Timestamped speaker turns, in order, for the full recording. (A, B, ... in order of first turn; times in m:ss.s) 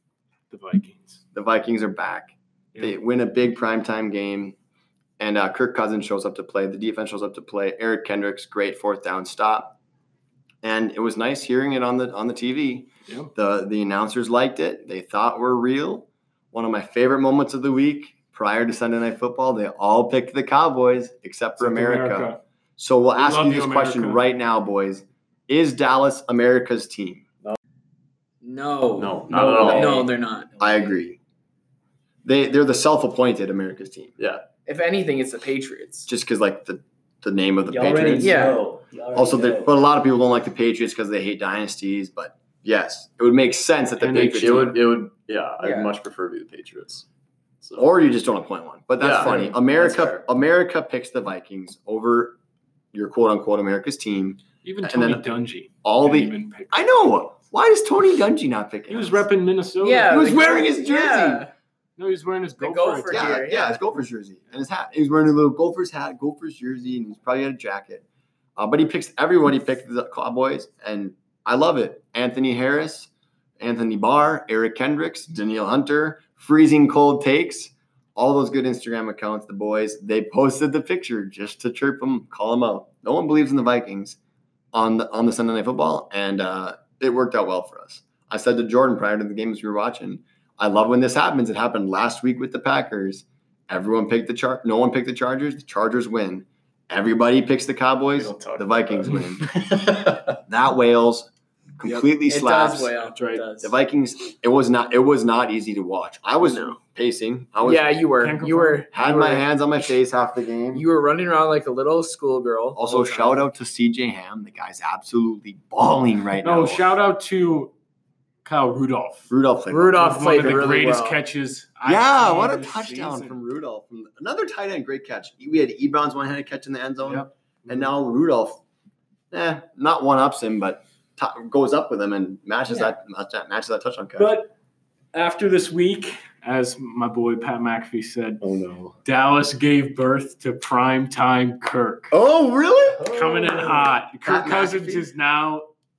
0:00.5-0:01.2 A
0:01.3-0:04.6 B
0:05.2-0:09.8 B
0:10.6-0:27.2 B
0:21.6-0:22.4 A
0:23.2-0:24.2 A
0:28.4-0:30.5 C
0:29.0-0:30.1 D
0:29.3-0:30.9 E
0:29.6-0:30.0 B
0:30.6-0:31.2 B
0:32.2-0:34.1 B
0:34.2-0:34.4 D
0:34.6-0:36.1 C
0:36.1-0:38.4 B
0:37.7-0:39.8 E
0:38.2-0:38.6 C
0:39.1-0:44.8 B
0:44.0-0:44.8 A
0:44.1-0:47.0 D
0:45.6-0:45.9 C
0:47.6-0:47.9 D
0:47.8-0:52.4 B
0:49.0-0:50.2 D
0:52.9-0:55.3 B
0:54.6-0:56.8 A
0:55.8-0:59.2 B
0:58.9-1:00.3 A
0:59.8-1:01.5 C
1:00.0-1:01.5 B
1:02.0-1:03.3 A
1:02.6-1:03.7 C
1:03.1-1:08.0 B
1:08.6-1:24.2 B
1:24.7-1:39.7 B
1:38.2-1:40.2 D
1:40.4-1:42.9 B
1:41.8-1:43.7 C
1:43.0-1:43.4 A
1:43.6-1:48.0 B
1:46.4-1:46.8 C
1:47.6-1:49.5 C
1:48.2-1:48.9 A
1:48.9-1:50.8 B
1:50.7-1:53.4 C
1:52.8-1:56.9 B
1:56.4-1:57.7 A
1:58.4-1:59.3 A
1:59.3-2:00.8 B
1:59.7-2:01.2 C
1:59.9-2:03.3 A
2:01.8-2:08.6 B
2:07.0-2:07.8 A
2:09.3-2:14.4 B
2:14.2-2:14.5 A
2:15.1-2:18.4 A
2:18.4-2:19.0 B
2:19.0-2:22.1 A
2:22.1-2:25.1 B
2:23.0-2:23.8 E
2:23.1-2:25.7 A